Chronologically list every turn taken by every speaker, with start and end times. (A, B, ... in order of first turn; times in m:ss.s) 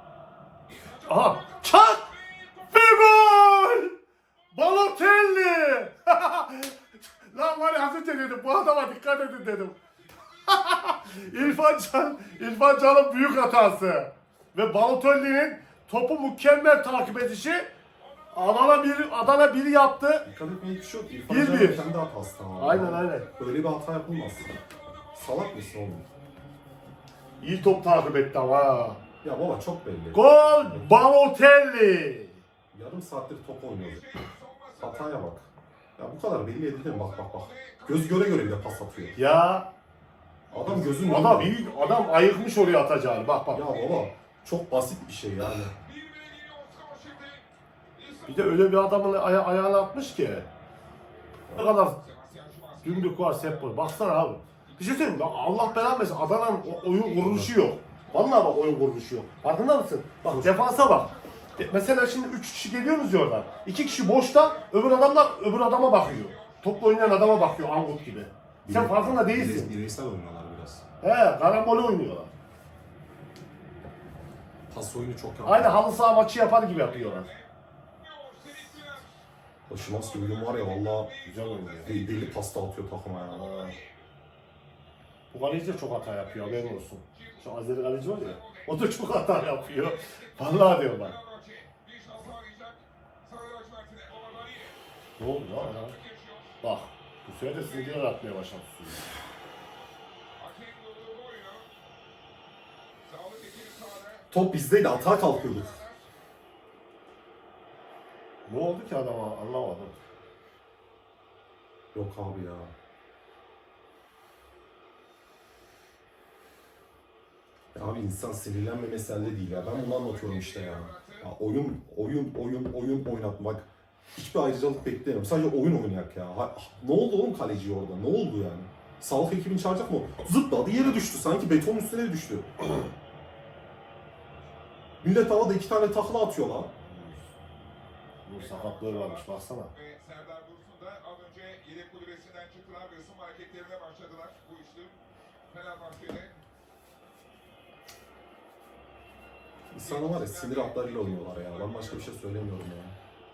0:00.9-0:03.9 A
0:04.5-0:09.8 A
0:10.4-0:17.7 A
0:18.3-0:20.2 A
0:20.2-0:24.5 B
0:21.3-0:21.8 A
0:22.6-0:23.3 A
0:25.1-0:26.1 B
0:27.4-0:29.0 A
0:29.2-0:30.9 B
0:30.1-0:32.4 A
0:32.7-0:34.1 B
0:34.8-0:39.2 B
0:39.2-0:39.7 A
0:40.5-0:41.6 B
0:40.6-0:43.6 A
0:43.5-0:45.8 B
0:46.2-0:47.2 C
0:48.2-0:50.5 A
0:51.5-0:52.0 A
0:52.8-1:09.7 A
0:57.2-0:57.5 B
1:00.2-1:00.6 B
1:08.6-1:10.8 B
1:11.0-1:12.3 A
1:14.7-1:15.8 B
1:15.4-1:17.3 A
1:19.7-1:21.1 B
1:21.2-1:22.0 A
1:21.8-1:23.4 B
1:23.3-1:23.8 A
1:25.3-1:31.2 A
1:32.2-1:32.5 C
1:33.6-1:34.4 C
1:35.2-1:36.0 A
1:36.6-1:39.1 A
1:40.7-1:41.5 C
1:43.4-1:44.0 C
1:44.3-1:45.8 B
1:48.4-1:50.0 A
1:51.9-1:52.7 B
1:57.8-2:12.5 B
2:15.0-2:16.7 B
2:16.9-2:17.3 A
2:18.2-2:19.7 A
2:20.1-2:24.9 C
2:25.6-2:26.3 C
2:29.7-2:33.0 B